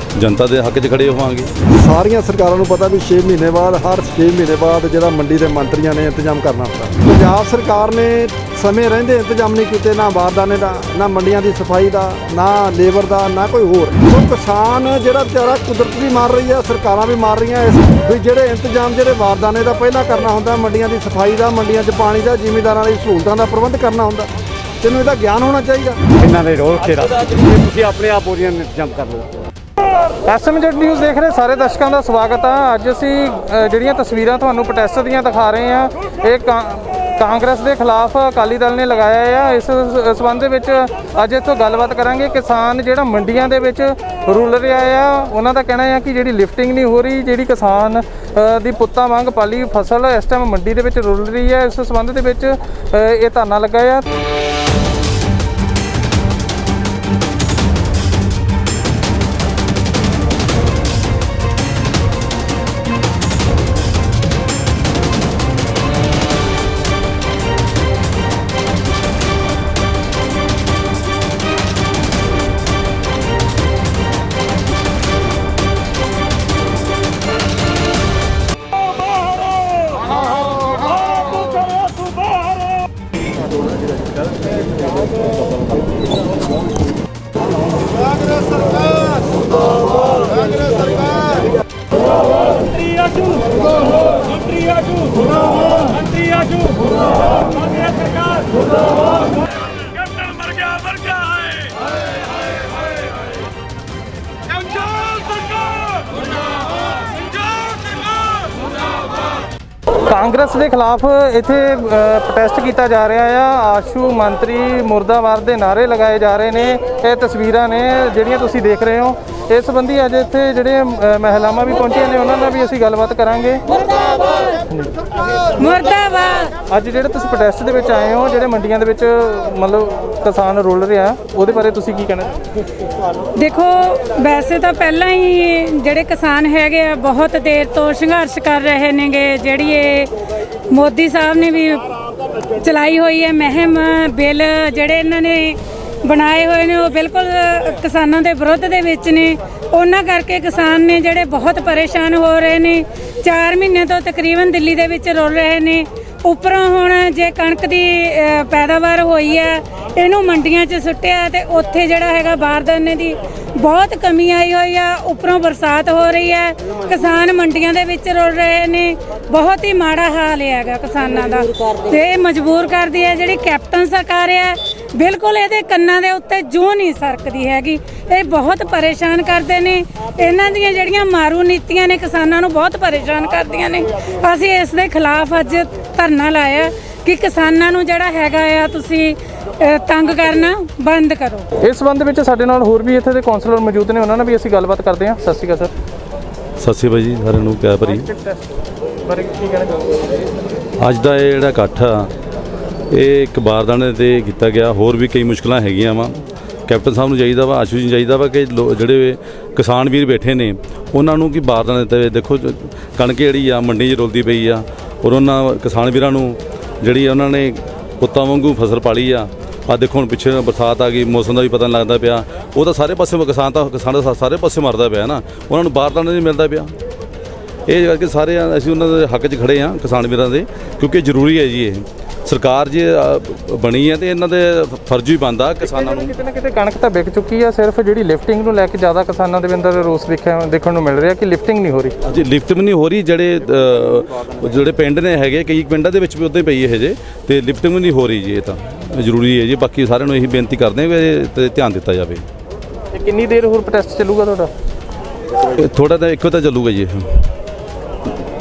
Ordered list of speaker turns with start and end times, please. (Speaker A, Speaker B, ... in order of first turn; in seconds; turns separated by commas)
Speaker A: 0.2-1.5, Speaker B: 1.8-24.3, Speaker B: 24.8-26.0, Speaker C: 26.2-29.4, Speaker D: 30.3-54.1, Speaker B: 90.9-91.2, Speaker C: 100.6-101.4, Speaker D: 110.1-123.7, Speaker E: 123.7-124.5, Speaker E: 125.5-126.6, Speaker D: 126.7-132.3, Speaker E: 133.3-140.1, Speaker E: 140.7-191.5, Speaker D: 191.6-195.7, Speaker A: 196.6-198.4, Speaker A: 199.1-199.9, Speaker A: 200.8-202.1, Speaker A: 202.9-226.7, Speaker A: 227.7-236.4, Speaker D: 236.2-241.9, Speaker A: 242.0-252.3, Speaker D: 252.9-254.5, Speaker A: 255.5-257.2